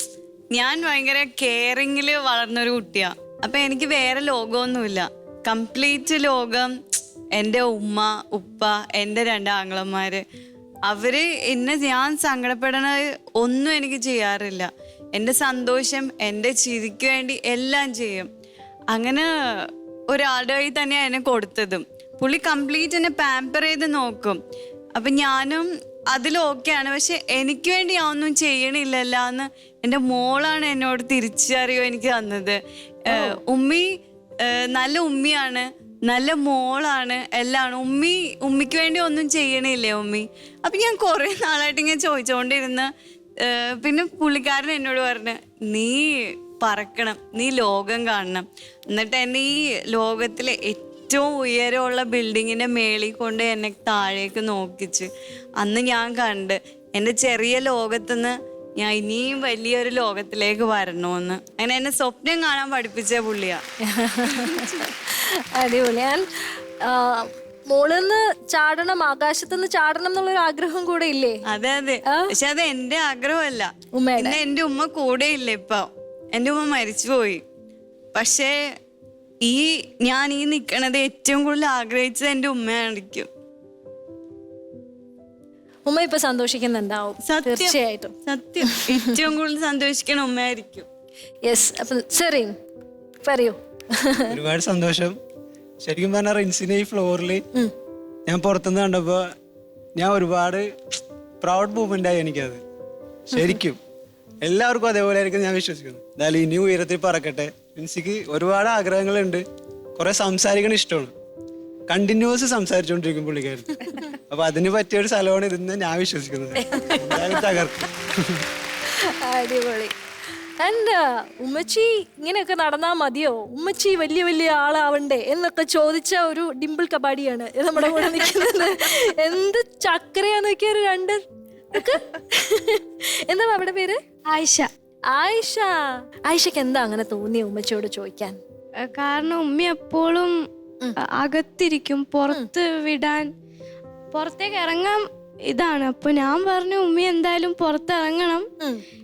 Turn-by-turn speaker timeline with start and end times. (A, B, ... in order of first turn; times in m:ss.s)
0:00.5-0:06.8 A
0:07.4-0:10.2 A
0:10.8-0:18.3 A
0:18.9-0:24.4 A
0:24.9-0:32.6 A
0:33.1-0:33.8 A
0:33.1-0:33.4 B
0:34.4-0:42.9 A
0:43.4-0:55.1 A
0:55.6-1:03.6 A
1:03.9-1:11.4 B
1:04.3-1:04.8 A
1:11.5-1:17.4 A
1:13.9-1:14.4 B
1:18.1-1:18.6 A
1:19.4-1:23.3 A
1:25.8-1:28.1 B
1:27.2-1:30.9 A
1:31.4-1:32.5 B
1:33.2-1:34.3 B
1:34.3-1:35.2 C
1:35.8-1:37.5 C
1:38.3-1:39.3 C
1:40.0-1:40.7 C
1:41.4-1:42.6 C
1:43.3-1:43.8 C
1:43.3-1:43.6 B
1:44.4-1:49.4 C
1:50.0-1:51.1 C
1:51.9-1:58.4 C
1:56.7-1:57.4 B
1:58.9-1:59.9 B
2:00.6-2:11.2 B
2:11.7-2:14.0 B
2:14.3-2:14.7 D
2:15.1-2:15.7 B
2:16.3-2:18.4 B
2:18.8-2:20.3 D
2:21.2-2:23.3 D
2:24.1-2:28.4 D